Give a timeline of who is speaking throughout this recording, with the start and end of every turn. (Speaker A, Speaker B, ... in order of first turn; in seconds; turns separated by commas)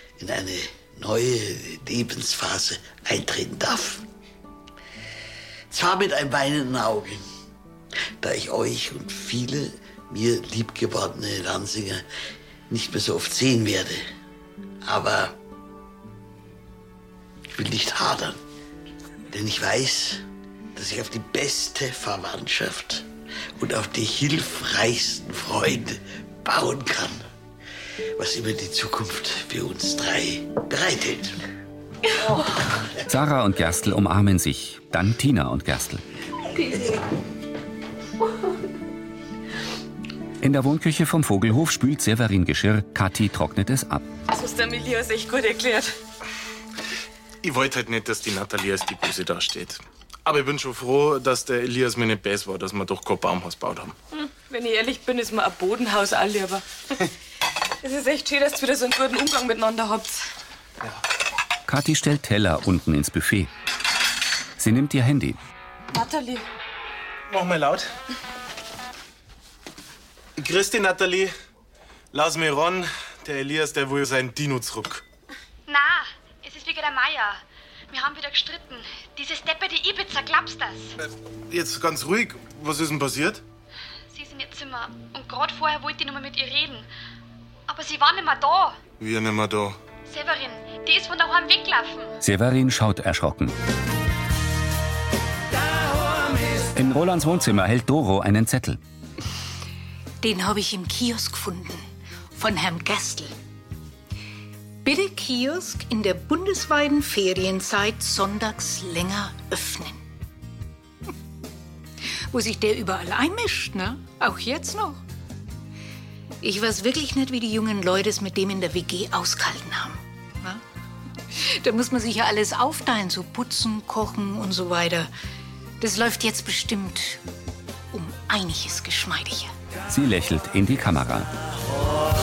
Speaker A: 0.2-4.1, Speaker A: 5.7-7.2, Speaker A: 8.2-12.1, Speaker A: 12.7-14.0, Speaker A: 14.8-15.3, Speaker A: 17.5-18.4, Speaker A: 19.3-20.2, Speaker A: 20.8-27.2, Speaker A: 28.2-31.4, Speaker B: 33.1-36.0, Speaker B: 40.4-44.1, Speaker C: 44.3-45.9, Speaker D: 47.4-54.0, Speaker C: 54.1-56.6, Speaker C: 57.8-60.2, Speaker B: 61.7-63.5, Speaker B: 64.6-65.4, Speaker C: 65.9-66.5, Speaker D: 67.3-67.9, Speaker D: 70.4-71.3, Speaker D: 72.1-75.0, Speaker E: 75.7-81.0, Speaker D: 81.5-83.4, Speaker E: 84.1-86.9, Speaker E: 87.7-88.8, Speaker D: 89.0-89.7, Speaker E: 90.1-92.1, Speaker B: 92.2-93.6, Speaker B: 96.8-98.8, Speaker F: 100.2-103.3, Speaker F: 104.8-110.0, Speaker F: 112.3-115.0, Speaker F: 116.4-120.6, Speaker F: 121.4-125.1, Speaker F: 125.8-127.2, Speaker F: 127.9-129.5, Speaker B: 129.9-131.3